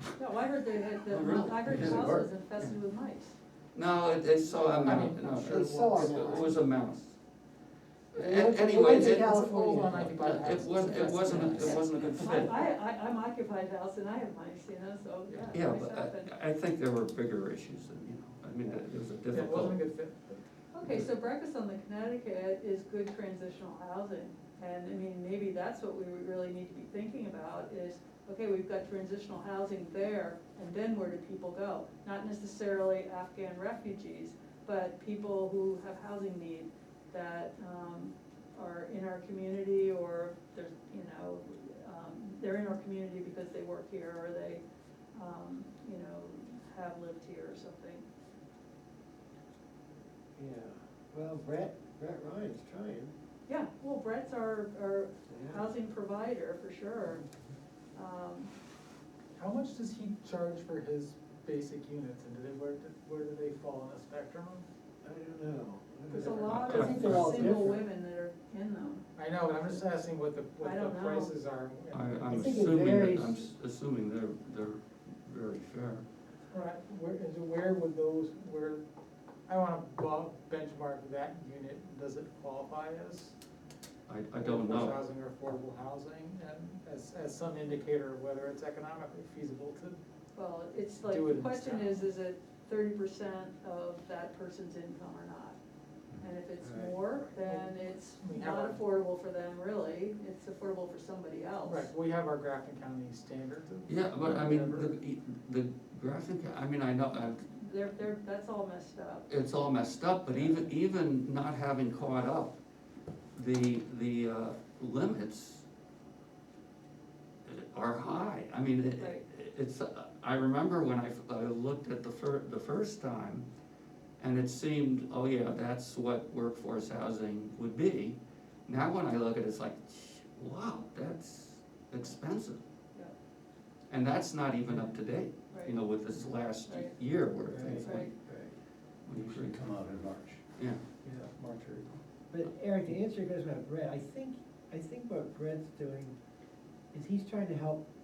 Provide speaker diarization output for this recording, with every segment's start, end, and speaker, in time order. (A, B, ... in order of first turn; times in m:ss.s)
0:00.2-0:03.4 A
0:01.1-0:02.8 B
0:01.6-0:02.3 C
0:03.7-0:07.1 B
0:04.6-0:06.5 D
0:04.6-0:06.6 E
0:08.1-0:10.1 E
0:08.1-0:12.6 B
0:08.9-0:12.0 D
0:10.8-0:16.3 A
0:15.5-0:19.8 B
0:19.3-0:20.4 D
0:20.7-0:44.6 A
0:45.1-0:48.1 A
0:50.4-0:53.1 E
0:53.5-0:57.3 A
0:55.3-0:55.6 E
0:58.0-0:58.5 A
0:59.4-1:04.6 D
1:05.0-1:07.8 E
1:06.1-1:06.5 D
1:06.2-1:09.1 A
1:06.4-1:07.6 B
1:09.2-1:12.6 D
1:10.6-1:11.3 A
1:11.9-1:16.0 B
1:12.3-1:13.4 E
1:16.5-1:18.8 D
1:19.5-1:23.3 D
1:24.1-1:25.6 B
1:24.4-1:30.0 D
1:30.4-1:35.6 A
1:31.0-1:32.0 D
1:36.2-1:41.9 A
1:36.6-1:37.0 E
1:37.3-1:38.8 D
1:41.6-1:44.9 D
1:43.9-1:47.5 B
1:47.6-1:49.3 A
1:49.3-1:52.6 B
1:50.3-1:50.7 D
1:53.4-1:55.6 B
1:57.5-2:03.4 B
1:59.0-1:59.2 A
2:04.2-2:12.6 B
2:13.9-2:18.1 B
2:15.5-2:15.8 A
2:16.7-2:17.0 A
2:17.5-2:18.6 E
2:17.8-2:18.1 A
2:19.0-2:19.7 B
2:19.1-2:20.4 C
2:21.0-2:21.3 E
2:21.4-2:21.9 D
2:22.3-2:26.2 E
2:26.9-2:27.8 E